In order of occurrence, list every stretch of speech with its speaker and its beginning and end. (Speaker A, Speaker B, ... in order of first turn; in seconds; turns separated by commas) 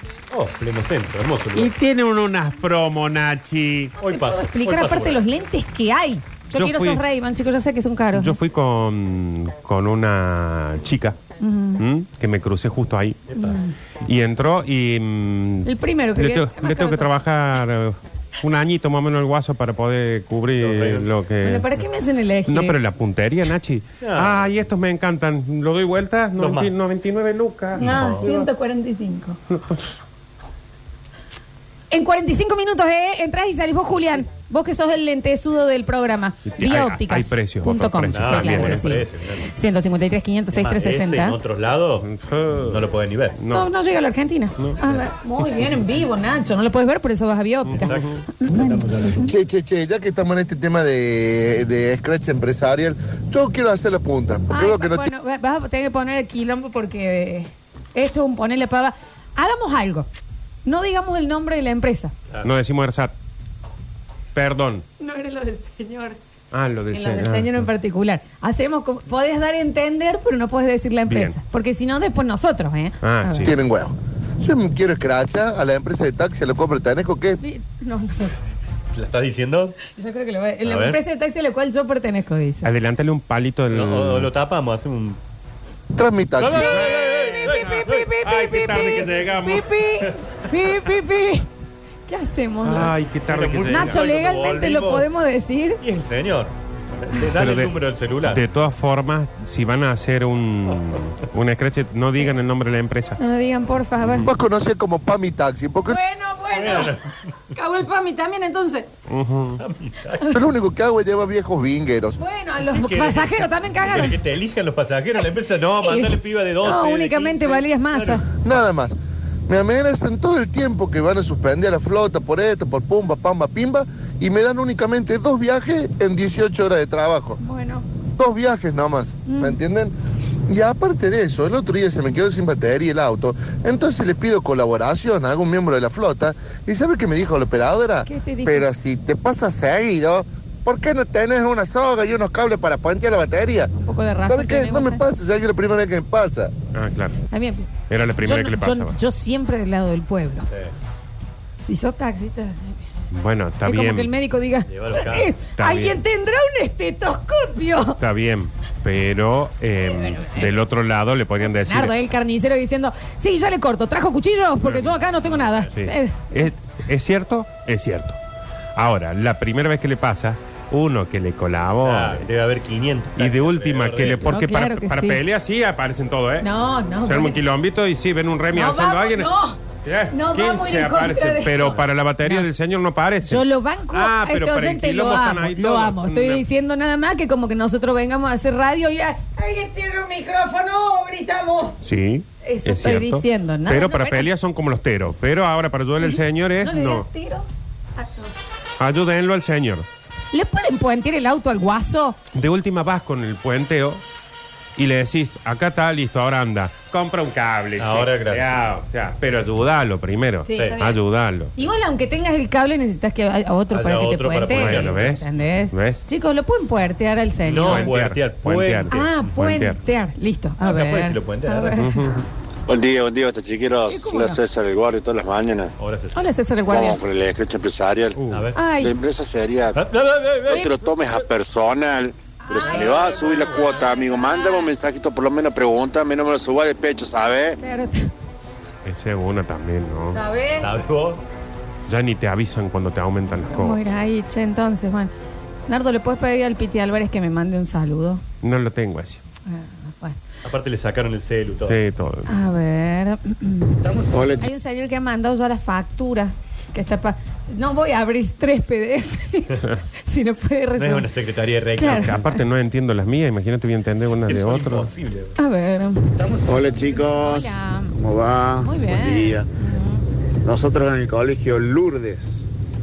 Speaker A: 0.3-1.7, Speaker B: 1.5-3.9, Speaker A: 4.0-5.2, Speaker C: 4.0-8.4, Speaker B: 6.5-7.0, Speaker B: 8.1-11.2, Speaker C: 11.4-11.8, Speaker B: 11.8-13.3, Speaker A: 13.3-13.6, Speaker C: 13.3-13.7, Speaker B: 14.0-21.7, Speaker C: 15.6-17.1, Speaker A: 20.6-21.1, Speaker C: 21.4-22.8, Speaker B: 22.5-28.1, Speaker A: 24.0-24.6, Speaker A: 26.4-26.7, Speaker C: 27.8-29.4, Speaker A: 27.8-28.3, Speaker B: 29.5-29.9, Speaker C: 31.9-41.4, Speaker B: 36.5-38.9, Speaker A: 38.1-39.5, Speaker A: 40.5-42.1, Speaker B: 42.0-42.8, Speaker A: 42.7-43.4, Speaker B: 43.4-43.7, Speaker C: 43.5-49.3, Speaker B: 44.6-45.0, Speaker B: 47.6-48.2, Speaker A: 47.8-48.2, Speaker D: 49.2-55.1, Speaker C: 54.5-60.1, Speaker C: 60.6-62.1, Speaker B: 62.4-63.1, Speaker B: 64.3-64.8, Speaker C: 65.0-66.2, Speaker B: 66.5-67.7, Speaker C: 66.9-73.5, Speaker B: 71.1-71.3, Speaker B: 73.0-73.6, Speaker D: 73.4-77.4, Speaker C: 77.4-78.3, Speaker A: 78.9-79.8, Speaker C: 79.9-82.7, Speaker A: 80.7-81.0, Speaker B: 82.6-84.3, Speaker A: 83.7-85.2, Speaker D: 85.9-86.8, Speaker A: 86.4-88.1, Speaker B: 86.6-89.7, Speaker C: 87.0-91.5, Speaker C: 92.1-92.9, Speaker B: 92.6-94.0, Speaker A: 93.3-95.1, Speaker C: 93.7-95.8, Speaker A: 95.8-98.4, Speaker B: 97.3-103.2, Speaker C: 103.2-104.3, Speaker B: 104.0-104.3, Speaker D: 104.2-106.0, Speaker C: 105.9-107.0, Speaker A: 106.5-107.3, Speaker C: 107.5-108.9, Speaker B: 109.1-109.6, Speaker A: 109.6-110.3, Speaker D: 110.3-112.2, Speaker C: 112.2-114.2, Speaker A: 112.7-118.2, Speaker C: 115.8-118.2, Speaker D: 118.4-118.9, Speaker D: 119.5-127.4, Speaker C: 127.4-127.8, Speaker D: 128.2-129.9, Speaker C: 129.2-129.6, Speaker D: 130.5-143.7, Speaker C: 138.1-138.7, Speaker C: 143.8-145.0, Speaker D: 144.2-146.6, Speaker B: 146.7-147.2, Speaker C: 147.3-147.7, Speaker B: 147.9-148.9, Speaker C: 148.2-150.5, Speaker C: 151.6-152.8, Speaker B: 153.1-154.1, Speaker C: 153.6-158.0, Speaker A: 154.7-155.3, Speaker B: 155.6-156.0, Speaker B: 158.0-161.9, Speaker C: 160.0-160.5, Speaker C: 161.6-166.4, Speaker A: 164.6-165.7, Speaker B: 165.8-168.2, Speaker B: 168.8-172.2, Speaker A: 171.8-174.3, Speaker B: 173.2-176.5, Speaker C: 173.9-175.2, Speaker C: 176.4-177.4, Speaker B: 177.0-179.3, Speaker C: 178.5-182.5, Speaker B: 179.8-186.4, Speaker C: 183.2-191.8, Speaker B: 191.8-197.1, Speaker C: 192.4-194.3, Speaker C: 196.0-197.4, Speaker C: 198.0-198.3, Speaker B: 198.8-199.9, Speaker C: 200.3-202.2, Speaker B: 202.3-204.0, Speaker B: 204.8-211.5, Speaker A: 207.8-208.5, Speaker C: 210.4-211.0, Speaker C: 211.6-217.9, Speaker A: 213.7-215.0, Speaker B: 214.5-216.0, Speaker A: 217.5-219.3, Speaker B: 217.5-219.8, Speaker C: 218.9-222.1, Speaker A: 220.6-221.8, Speaker B: 221.8-222.2, Speaker E: 222.7-225.7, Speaker C: 223.9-224.4, Speaker A: 225.8-226.2, Speaker C: 226.1-227.0, Speaker E: 226.7-228.2, Speaker B: 228.2-228.5, Speaker A: 228.3-228.6, Speaker C: 228.5-228.9, Speaker E: 228.8-229.8, Speaker A: 229.7-230.7, Speaker E: 230.5-237.6, Speaker C: 232.4-234.7, Speaker A: 232.6-233.8, Speaker C: 237.6-238.1, Speaker B: 238.8-240.2, Speaker C: 240.1-240.7, Speaker A: 240.6-241.2, Speaker B: 241.9-243.8, Speaker C: 243.5-245.1, Speaker C: 245.7-248.2, Speaker B: 248.4-249.2, Speaker C: 249.4-250.2, Speaker A: 250.4-251.8, Speaker B: 251.7-252.3, Speaker C: 252.3-261.1, Speaker F: 254.1-254.5, Speaker A: 260.8-262.2, Speaker C: 261.8-262.4, Speaker B: 261.8-264.9, Speaker A: 264.2-265.4, Speaker C: 265.4-266.1, Speaker F: 266.4-269.5, Speaker C: 267.0-267.9, Speaker C: 268.6-270.0, Speaker F: 270.4-272.5